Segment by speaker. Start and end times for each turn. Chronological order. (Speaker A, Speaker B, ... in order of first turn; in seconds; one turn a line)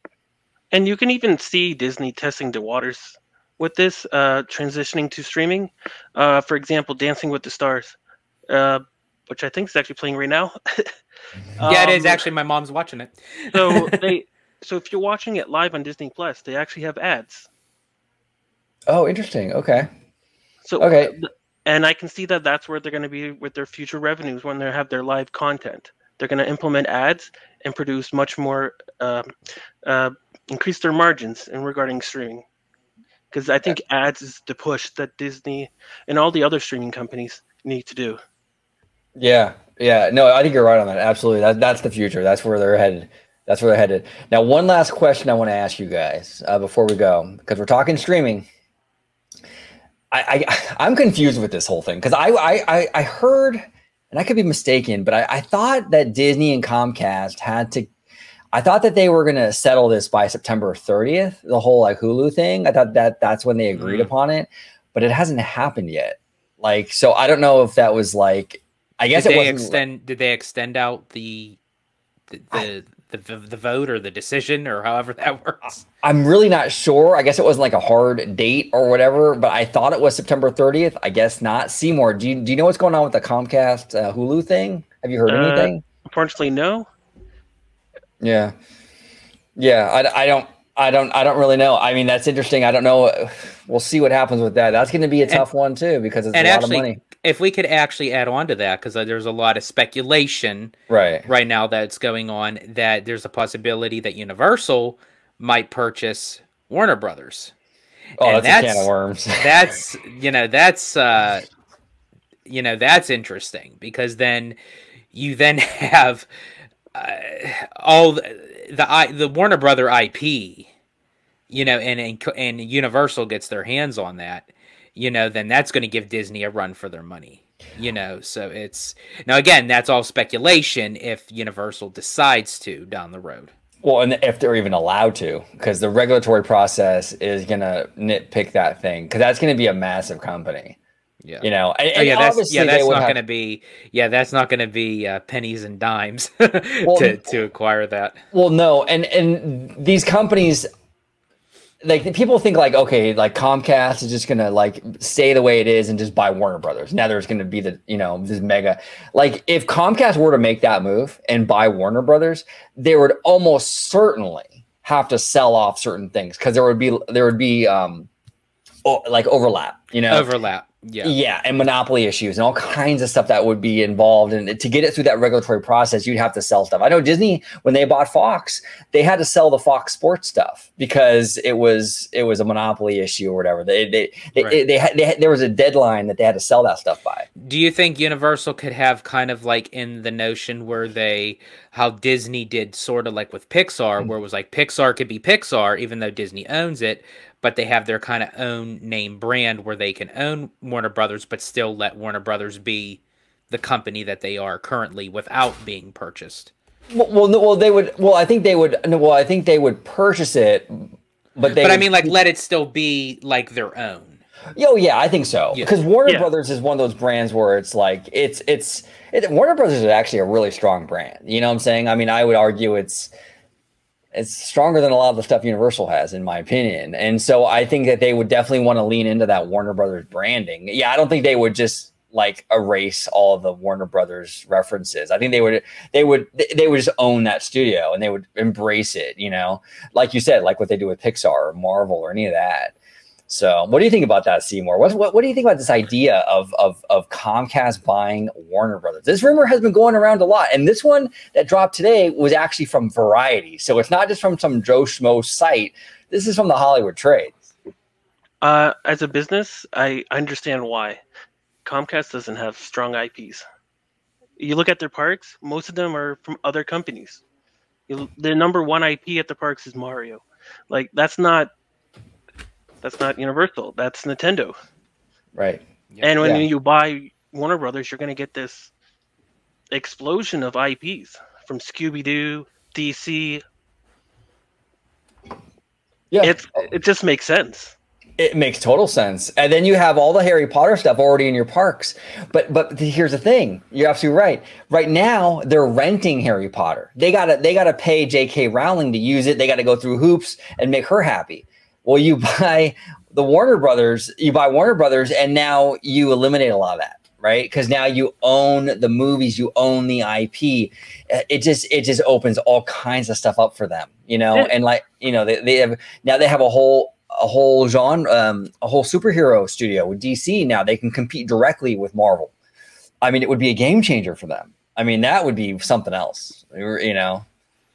Speaker A: 0.7-8.0
Speaker A: 8.5-10.9
Speaker A: 11.6-12.3
Speaker B: 11.6-14.0
Speaker A: 13.5-17.5
Speaker C: 18.9-19.9
Speaker A: 20.6-29.3
Speaker C: 20.8-21.1
Speaker A: 29.8-32.5
Speaker A: 33.3-38.2
Speaker C: 39.2-48.5
Speaker C: 50.1-57.9
Speaker C: 58.5-69.8
Speaker B: 63.7-64.1
Speaker B: 69.1-71.6
Speaker B: 72.3-75.7
Speaker C: 76.0-85.8
Speaker A: 85.3-86.9
Speaker C: 88.2-88.5
Speaker C: 89.6-97.0
Speaker B: 96.3-100.7
Speaker C: 100.9-101.3
Speaker B: 101.3-107.5
Speaker C: 108.2-109.5
Speaker B: 108.2-111.5
Speaker B: 112.5-114.6
Speaker B: 115.1-116.3
Speaker B: 116.9-120.7
Speaker B: 121.5-133.5
Speaker C: 133.8-140.8
Speaker B: 141.2-148.2
Speaker C: 141.4-143.2
Speaker C: 146.8-147.2
Speaker C: 148.3-150.7
Speaker C: 151.8-168.1
Speaker C: 168.8-170.3
Speaker B: 170.1-171.1
Speaker C: 171.0-187.3
Speaker B: 187.4-206.5
Speaker C: 206.9-212.2
Speaker B: 211.5-214.2
Speaker C: 214.6-223.1
Speaker C: 224.1-242.7
Speaker C: 243.3-257.5
Speaker A: 258.4-261.0
Speaker A: 261.6-263.4
Speaker A: 264.4-267.2
Speaker A: 267.9-271.5
Speaker A: 272.8-274.6
Speaker C: 275.4-275.6
Speaker A: 276.0-278.7
Speaker C: 276.2-276.4
Speaker A: 279.7-283.4
Speaker C: 286.1-286.4
Speaker A: 286.2-287.8
Speaker C: 288.2-322.3
Speaker C: 323.0-327.3